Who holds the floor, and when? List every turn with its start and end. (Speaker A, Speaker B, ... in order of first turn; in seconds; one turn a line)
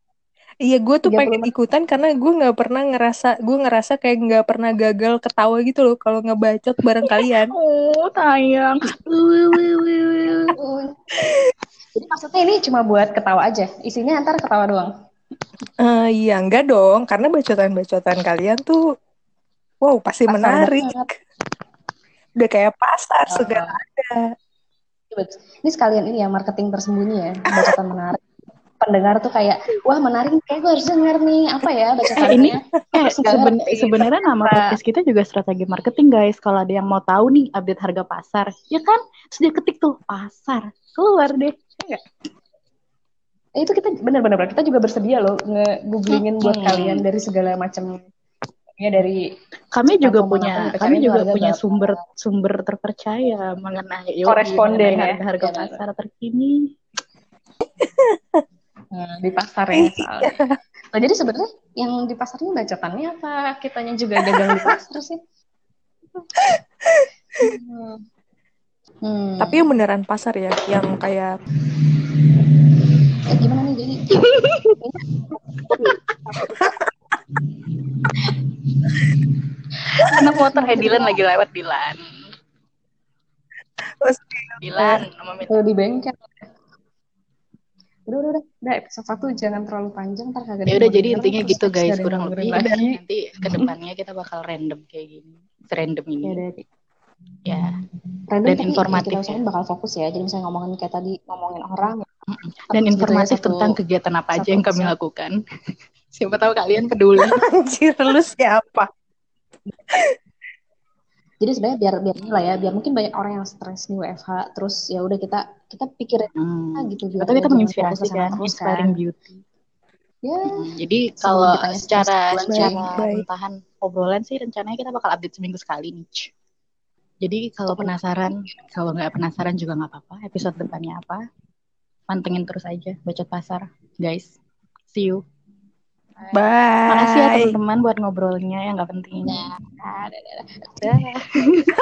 Speaker A: 0.7-7.5
Speaker B: 1.0-1.5
Speaker C: 6.9-10.5
Speaker B: 10.6-11.1
Speaker B: 11.9-14.9
Speaker A: 15.8-18.8
Speaker A: 19.8-21.0
Speaker B: 20.3-21.1
Speaker A: 22.4-24.3
Speaker B: 23.3-23.8
Speaker B: 25.1-28.2
Speaker B: 28.8-34.8
Speaker C: 32.2-41.5
Speaker B: 43.6-48.0
Speaker C: 46.1-47.0
Speaker B: 48.8-49.2
Speaker C: 49.7-56.6
Speaker B: 49.8-52.0
Speaker B: 54.2-55.8
Speaker A: 57.8-58.4
Speaker B: 58.9-65.2
Speaker A: 59.8-60.6
Speaker A: 64.2-64.7
Speaker A: 66.4-67.5
Speaker B: 67.5-68.0
Speaker B: 69.0-69.6
Speaker A: 69.4-71.3
Speaker B: 73.3-74.0
Speaker C: 74.3-74.7
Speaker B: 75.7-76.5
Speaker A: 76.5-76.7
Speaker C: 80.1-82.2
Speaker B: 80.1-81.2
Speaker A: 84.0-84.6
Speaker C: 84.6-85.6
Speaker B: 84.8-86.4
Speaker B: 88.1-93.7
Speaker C: 90.7-96.4
Speaker B: 96.2-96.6
Speaker C: 97.5-97.7
Speaker B: 98.3-102.0
Speaker C: 98.5-99.4
Speaker C: 102.3-105.3
Speaker B: 102.7-103.8
Speaker B: 104.3-104.9
Speaker C: 106.1-107.4
Speaker A: 107.2-108.9
Speaker B: 111.4-119.0
Speaker C: 116.4-119.4
Speaker B: 120.2-120.5
Speaker C: 120.5-126.3
Speaker B: 121.2-122.9
Speaker A: 122.5-123.2
Speaker C: 127.2-131.2
Speaker C: 132.1-134.3
Speaker C: 134.9-135.2
Speaker B: 136.2-136.5
Speaker A: 136.3-137.6
Speaker C: 136.9-139.5
Speaker B: 139.2-141.1
Speaker C: 140.8-141.7